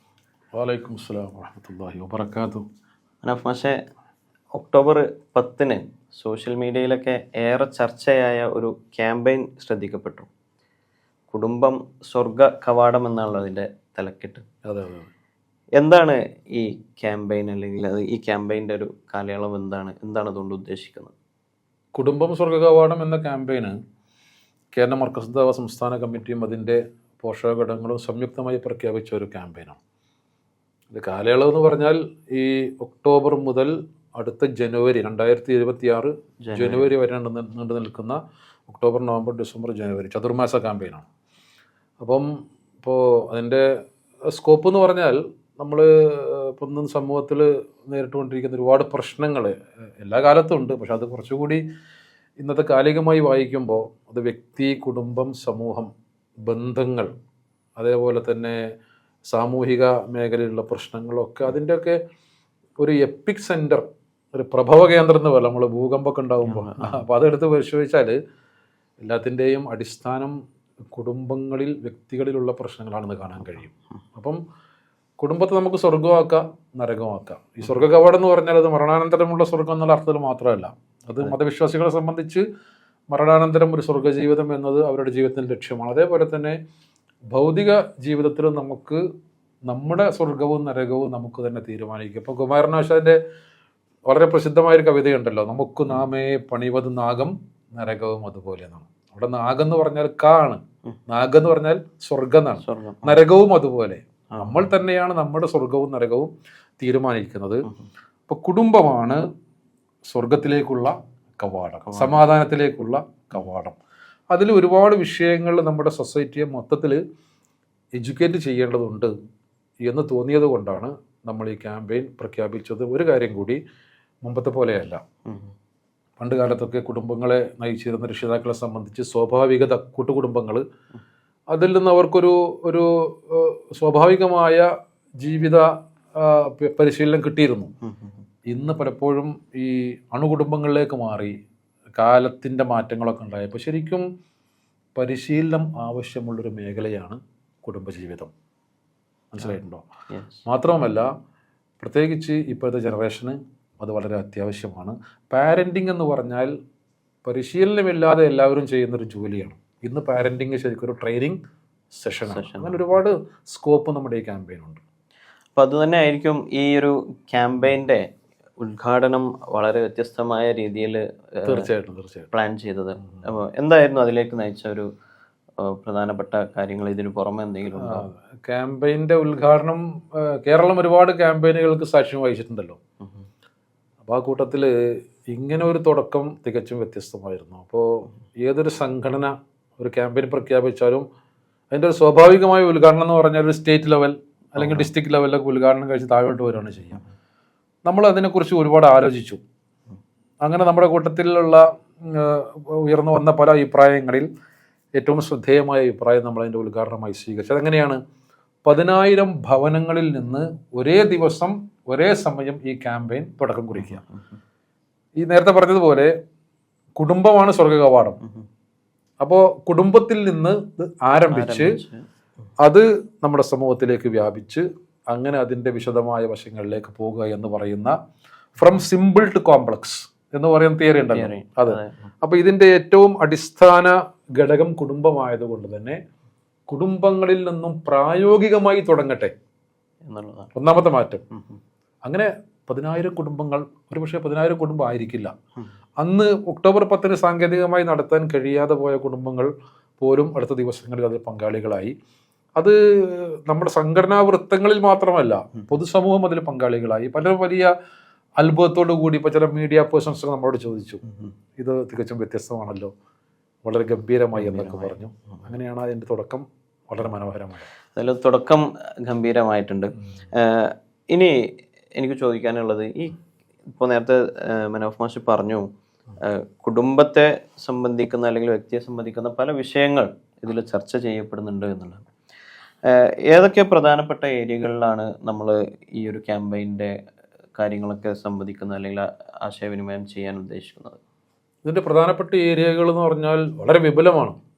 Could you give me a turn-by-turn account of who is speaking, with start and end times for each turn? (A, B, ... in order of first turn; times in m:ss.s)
0:00.5-0:02.6 A
0:03.2-0:03.8 B
0:04.5-0:10.3 B
0:11.3-0:14.4 B
0:14.6-0:15.1 A
0:15.8-0:21.1 B
0:21.9-0:23.8 A
0:24.7-0:29.8 A
0:30.9-0:41.0 A
0:36.4-0:36.9 B
0:42.0-0:42.3 A
0:42.8-0:43.7 A
0:44.3-0:51.6 A
0:52.4-0:55.9 A
0:56.5-0:57.1 A
0:57.8-0:58.6 A
0:59.3-1:02.0 A
1:02.8-1:08.2 A
1:06.4-1:07.0 B
1:09.0-1:10.3 A
1:10.9-1:14.4 A
1:15.2-1:22.4 A
1:23.1-1:26.6 A
1:27.3-1:29.0 A
1:29.7-1:33.2 A
1:34.1-1:47.6 A
1:42.6-1:43.2 B
1:44.3-1:44.7 B
1:48.3-1:49.2 A
1:50.1-1:53.8 A
1:51.9-1:52.2 B
1:54.3-1:57.0 A
1:58.0-1:59.1 A
1:59.8-2:03.6 A
2:04.2-2:05.0 A
2:05.3-2:05.5 B
2:06.2-2:10.6 A
2:11.5-2:14.7 A
2:15.2-2:17.7 A
2:17.8-2:18.2 B
2:18.5-2:21.3 A
2:22.0-2:24.0 A
2:25.0-2:28.3 A
2:29.3-2:29.8 A
2:30.1-2:30.4 B
2:30.4-2:31.1 A
2:31.8-2:36.5 A
2:37.2-2:41.4 A
2:41.9-2:44.8 A
2:42.2-2:43.0 B
2:45.6-2:48.0 B
2:48.6-2:51.7 B
2:51.4-2:52.3 A
2:52.3-2:54.9 B
2:55.6-2:58.1 B
2:57.8-3:02.8 A
3:04.0-3:04.7 A
3:05.3-3:11.0 A
3:11.7-3:17.0 A
3:14.6-3:14.9 B
3:17.8-3:19.4 A
3:20.4-3:24.3 A
3:25.0-3:28.0 A
3:28.6-3:34.0 A
3:33.7-3:34.2 B
3:35.2-3:36.1 A
3:37.0-3:38.2 A
3:39.2-3:41.8 A
3:41.3-3:42.0 B
3:42.6-3:47.9 A
3:48.6-3:56.0 A
3:51.1-3:52.1 B
3:56.7-3:59.3 A
4:00.0-4:00.5 B
4:00.6-4:01.2 A
4:01.3-4:01.6 B
4:02.0-4:05.3 A
4:06.0-4:09.5 A
4:10.0-4:11.9 A
4:12.6-4:17.7 A
4:18.4-4:21.0 A
4:21.1-4:21.3 B
4:21.6-4:22.9 A
4:23.6-4:27.7 A
4:24.3-4:25.4 B
4:27.9-4:33.1 B
4:33.7-4:35.6 B
4:36.2-4:42.0 B
4:42.8-4:46.9 B
4:47.6-4:51.0 B
4:51.6-4:54.4 A